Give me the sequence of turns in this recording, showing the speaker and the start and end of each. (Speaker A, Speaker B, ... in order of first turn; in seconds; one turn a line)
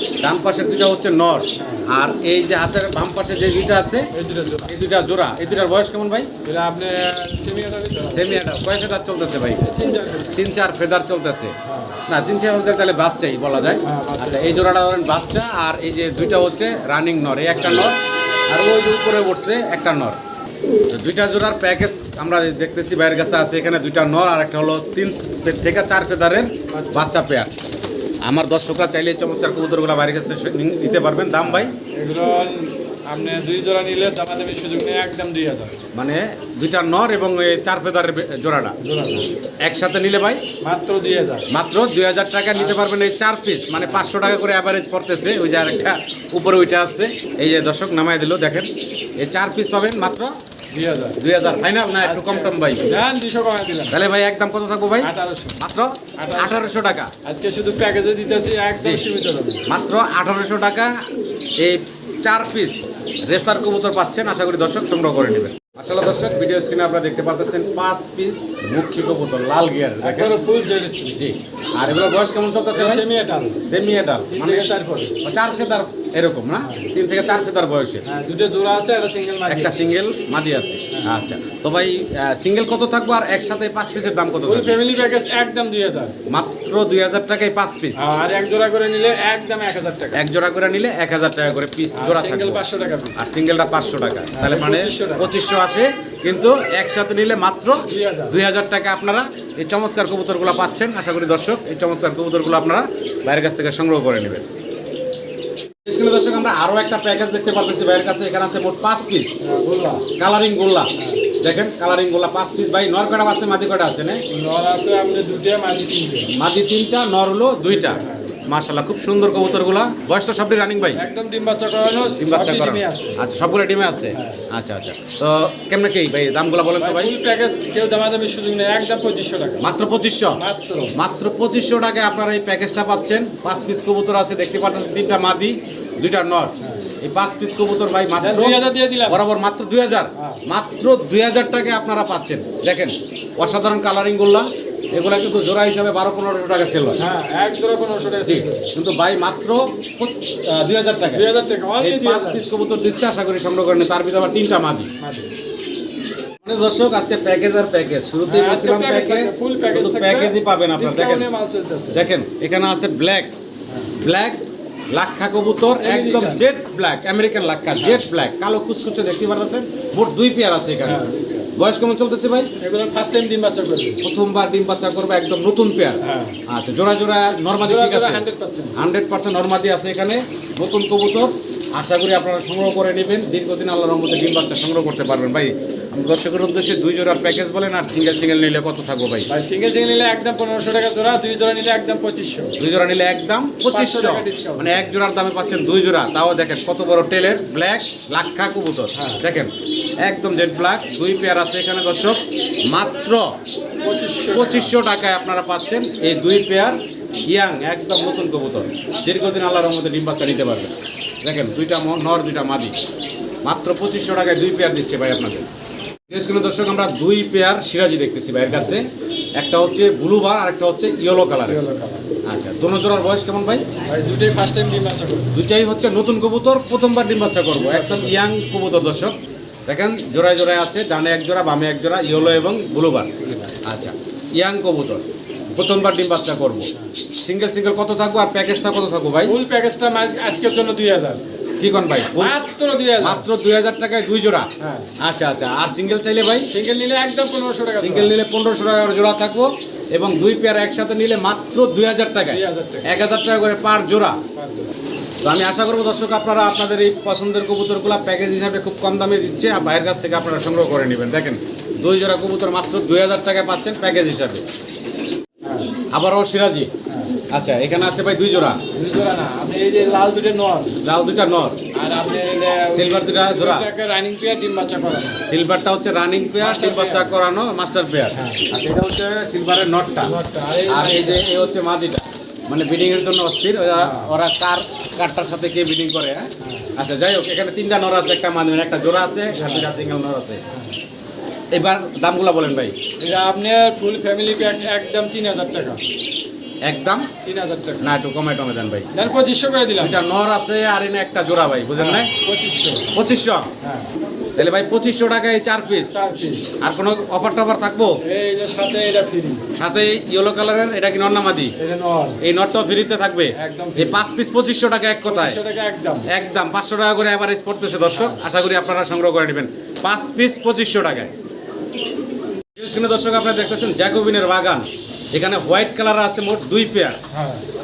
Speaker A: 0.2-4.1
Speaker B: 1.6-1.9
Speaker B: 4.1-4.8
Speaker A: 4.7-6.3
Speaker B: 6.4-8.5
Speaker A: 8.1-9.7
Speaker B: 9.6-10.4
Speaker A: 10.3-11.5
Speaker B: 11.7-12.0
Speaker A: 12.1-18.0
Speaker B: 13.8-14.6
Speaker B: 17.5-17.9
Speaker A: 18.5-20.2
Speaker A: 20.9-27.5
Speaker B: 26.7-27.2
Speaker A: 28.2-31.7
Speaker B: 31.4-35.8
Speaker A: 35.9-38.7
Speaker B: 38.8-39.3
Speaker A: 39.6-40.4
Speaker B: 40.6-41.5
Speaker A: 41.5-50.3
Speaker B: 42.5-42.8
Speaker B: 43.7-44.1
Speaker B: 50.7-51.2
Speaker A: 51.2-52.9
Speaker B: 52.0-54.0
Speaker A: 53.9-57.1
Speaker B: 55.0-55.6
Speaker B: 56.2-59.6
Speaker A: 59.7-60.9
Speaker A: 61.6-70.3
Speaker B: 70.0-71.2
Speaker A: 71.1-73.0
Speaker B: 72.7-73.7
Speaker A: 73.6-74.7
Speaker B: 74.3-75.2
Speaker A: 75.2-78.0
Speaker B: 76.6-76.9
Speaker B: 78.0-79.8
Speaker A: 79.5-84.8
Speaker B: 84.4-86.1
Speaker A: 86.3-88.1
Speaker B: 88.0-90.2
Speaker A: 90.1-92.6
Speaker B: 91.9-93.2
Speaker A: 93.2-104.5
Speaker B: 94.3-95.3
Speaker B: 97.9-98.4
Speaker A: 105.8-109.3
Speaker B: 109.4-110.0
Speaker A: 110.2-114.2
Speaker B: 114.3-116.3
Speaker A: 116.3-121.0
Speaker B: 117.7-118.3
Speaker B: 120.9-123.2
Speaker A: 122.2-127.1
Speaker B: 124.1-124.4
Speaker B: 126.8-129.7
Speaker A: 129.6-130.4
Speaker B: 130.4-131.0
Speaker A: 130.9-147.0
Speaker B: 138.2-139.2
Speaker B: 140.2-140.4
Speaker B: 147.0-148.7
Speaker A: 148.2-154.9
Speaker B: 151.1-152.4
Speaker B: 155.0-155.3
Speaker A: 156.4-161.3
Speaker B: 158.2-162.0
Speaker A: 161.9-163.3
Speaker A: 164.0-171.0
Speaker B: 165.8-166.5
Speaker B: 167.8-168.0
Speaker B: 170.8-171.5
Speaker A: 171.5-172.5
Speaker B: 172.6-174.0
Speaker A: 174.0-178.2
Speaker B: 176.0-176.4
Speaker B: 177.6-178.8
Speaker A: 178.8-189.3
Speaker B: 189.3-192.6
Speaker A: 192.6-199.5
Speaker B: 193.7-194.9
Speaker B: 198.9-199.2
Speaker A: 200.0-203.4
Speaker B: 203.8-204.8
Speaker A: 204.3-212.7
Speaker A: 213.4-215.4
Speaker A: 216.1-221.6
Speaker B: 218.5-218.8
Speaker B: 221.4-222.0
Speaker A: 222.2-223.7
Speaker B: 223.8-225.3
Speaker A: 225.3-229.2
Speaker B: 227.5-228.2
Speaker A: 229.7-239.4
Speaker B: 233.2-233.6
Speaker B: 239.2-241.2
Speaker A: 241.6-242.4
Speaker B: 242.2-243.3
Speaker A: 243.0-244.5
Speaker B: 244.6-244.9
Speaker A: 245.0-246.5
Speaker B: 246.5-248.1
Speaker A: 247.8-254.2
Speaker B: 252.3-252.9
Speaker B: 254.3-254.7
Speaker A: 255.2-264.4
Speaker B: 265.4-265.7
Speaker A: 265.9-266.7
Speaker B: 266.9-267.1
Speaker A: 267.3-268.6
Speaker B: 268.7-270.8
Speaker A: 270.8-271.6
Speaker B: 271.7-275.2
Speaker A: 272.7-273.7
Speaker A: 275.2-280.1
Speaker B: 276.4-277.1
Speaker B: 278.1-278.4
Speaker B: 280.0-281.2
Speaker A: 280.7-290.4
Speaker B: 283.8-284.1
Speaker B: 286.4-286.7
Speaker B: 289.3-289.9
Speaker A: 291.5-292.7
Speaker B: 293.0-295.8
Speaker A: 296.6-297.1
Speaker B: 297.2-297.9
Speaker A: 297.8-298.9
Speaker B: 298.9-300.0
Speaker A: 299.8-302.1
Speaker B: 301.8-302.9
Speaker A: 302.9-303.5
Speaker B: 303.6-303.9
Speaker A: 304.4-305.9
Speaker B: 305.8-306.6
Speaker A: 306.6-308.0
Speaker B: 308.0-309.4
Speaker A: 309.5-311.5
Speaker B: 311.6-312.2
Speaker A: 312.2-315.4
Speaker B: 313.3-314.1
Speaker B: 315.1-316.1
Speaker A: 316.1-321.1
Speaker B: 317.9-318.2
Speaker A: 322.6-327.0
Speaker B: 327.1-327.4